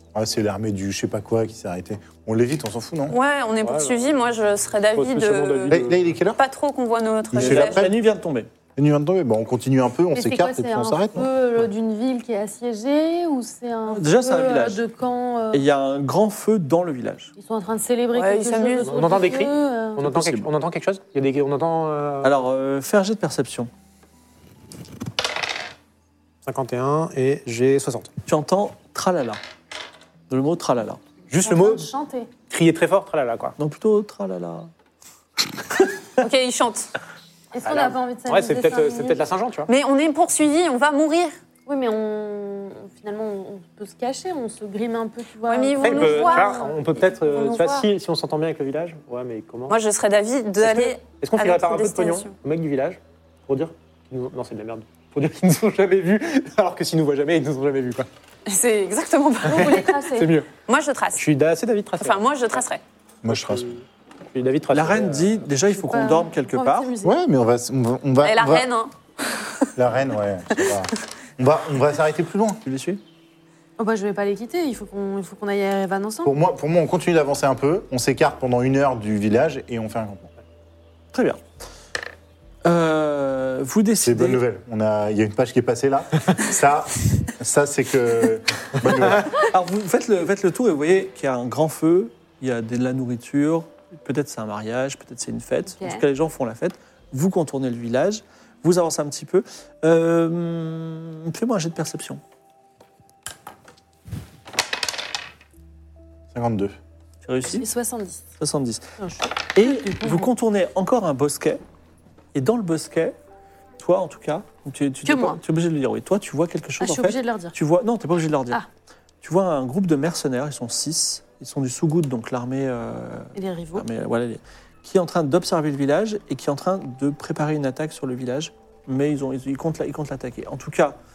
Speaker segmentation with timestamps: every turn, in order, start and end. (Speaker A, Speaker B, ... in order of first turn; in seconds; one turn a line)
Speaker A: 0.1-3.2
Speaker B: 3.1-5.8
Speaker C: 3.6-4.0
Speaker C: 5.0-6.1
Speaker A: 5.7-6.4
Speaker B: 6.4-7.9
Speaker A: 7.3-7.9
Speaker D: 7.4-8.5
Speaker A: 8.8-11.3
Speaker E: 10.1-15.7
Speaker D: 13.9-14.8
Speaker D: 15.5-17.3
Speaker E: 17.4-20.1
Speaker B: 18.1-19.2
Speaker C: 18.9-22.3
Speaker D: 20.0-20.5
Speaker D: 22.2-23.7
Speaker C: 26.5-28.1
Speaker D: 28.3-29.4
Speaker D: 30.3-31.0
Speaker C: 31.3-31.9
Speaker E: 31.4-32.3
Speaker C: 32.5-33.6
Speaker D: 33.6-34.7
Speaker B: 36.2-36.9
Speaker E: 37.5-39.2
Speaker C: 37.7-39.7
Speaker B: 39.7-41.4
Speaker E: 41.7-46.7
Speaker B: 45.4-46.7
Speaker C: 45.8-49.8
Speaker B: 47.2-47.9
Speaker B: 49.7-52.3
Speaker C: 50.6-58.1
Speaker B: 58.5-59.9
Speaker E: 59.5-60.4
Speaker C: 59.5-60.5
Speaker B: 60.5-61.2
Speaker C: 61.2-62.2
Speaker B: 62.0-62.8
Speaker A: 63.2-63.7
Speaker C: 63.3-65.4
Speaker D: 64.7-66.9
Speaker E: 65.7-67.2
Speaker A: 67.0-68.7
Speaker B: 68.2-69.7
Speaker A: 69.8-72.6
Speaker D: 72.7-73.0
Speaker E: 73.8-76.3
Speaker A: 76.2-80.3
Speaker D: 81.1-81.4
Speaker D: 82.6-84.4
Speaker A: 84.0-89.4
Speaker D: 89.4-102.2
Speaker E: 95.7-96.0
Speaker A: 106.3-106.8
Speaker D: 107.2-107.7
Speaker E: 107.5-108.2
Speaker D: 108.4-108.8
Speaker E: 109.0-110.3
Speaker D: 109.5-111.6
Speaker D: 112.3-113.2
Speaker D: 113.8-118.6
Speaker E: 115.0-115.4
Speaker E: 116.8-117.5
Speaker D: 119.2-131.0
Speaker E: 123.3-123.9